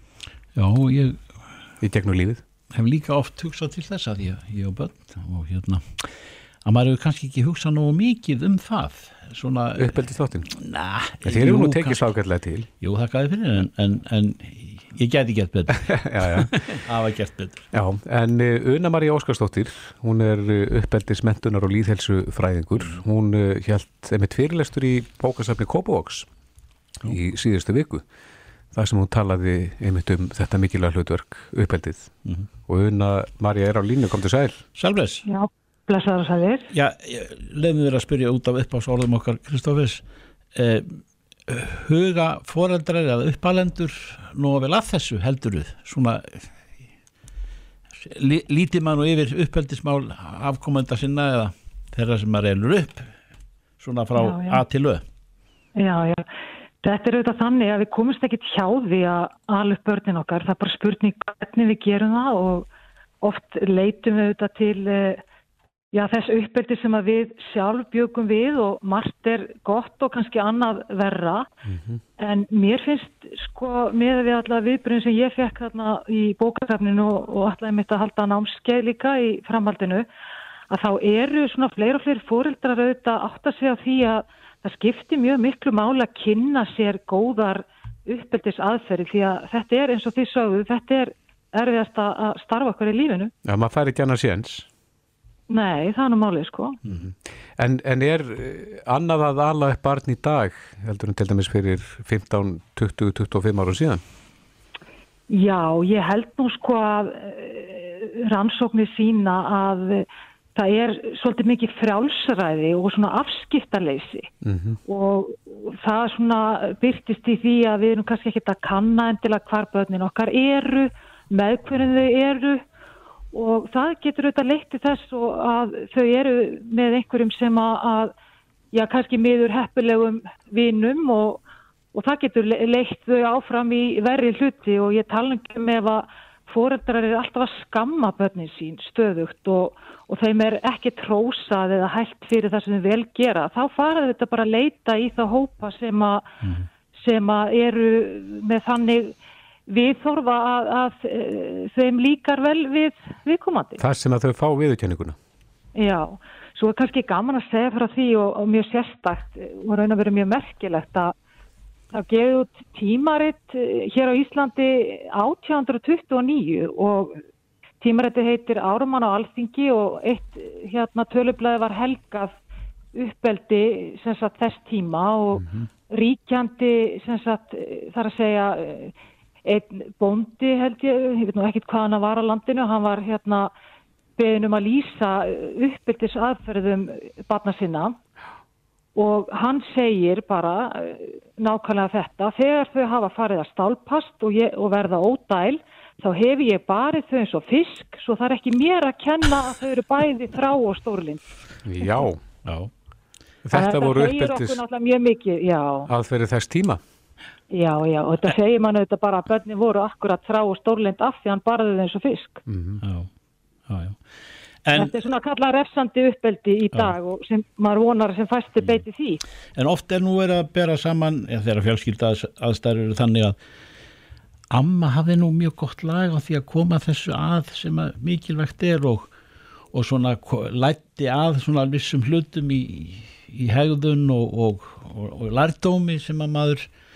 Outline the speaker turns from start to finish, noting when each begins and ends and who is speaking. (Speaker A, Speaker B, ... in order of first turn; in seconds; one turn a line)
Speaker A: 0.6-1.2
Speaker B: 1.8-2.4
Speaker A: 2.7-6.1
Speaker A: 6.6-12.1
Speaker B: 9.8-10.5
Speaker B: 11.2-12.7
Speaker A: 12.8-17.6
Speaker B: 15.8-16.6
Speaker B: 17.7-26.3
Speaker B: 27.0-28.0
Speaker B: 28.7-32.1
Speaker B: 32.7-34.6
Speaker A: 34.8-35.2
Speaker C: 35.2-36.7
Speaker A: 36.7-40.0
Speaker A: 40.5-46.5
Speaker A: 48.0-53.1
Speaker A: 53.8-55.0
Speaker C: 54.1-54.6
Speaker C: 55.8-56.3
Speaker C: 56.8-62.7
Speaker C: 63.2-65.2
Speaker C: 65.9-71.5
Speaker B: 71.6-72.0
Speaker C: 72.2-80.0
Speaker C: 80.7-93.3
Speaker B: 93.4-94.7
Speaker C: 95.5-96.8
Speaker B: 96.9-104.0
Speaker C: 105.3-114.3
Speaker B: 114.4-114.8
Speaker C: 114.8-122.6
Speaker C: 123.3-128.1
Speaker C: 128.7-131.4
Speaker C: 131.9-146.3
Speaker C: 147.0-149.1
Speaker C: 149.7-153.8
Speaker B: 153.8-155.2
Speaker C: 155.8-161.1
Speaker C: 161.9-167.2
Speaker C: 167.8-172.3
Speaker C: 172.9-178.9
Speaker B: 175.4-175.7
Speaker C: 179.4-183.5
Speaker C: 184.2-187.9
Speaker C: 188.9-201.2
Speaker B: 201.6-202.2
Speaker A: 202.4-202.7
Speaker B: 203.4-204.6
Speaker C: 203.5-205.9
Speaker B: 205.8-206.8
Speaker C: 207.5-212.4
Speaker B: 212.4-212.8
Speaker A: 212.8-213.1
Speaker A: 213.7-214.0
Speaker A: 214.6-214.9
Speaker C: 214.8-219.2
Speaker A: 219.6-223.3
Speaker A: 224.5-229.1
Speaker A: 229.7-236.7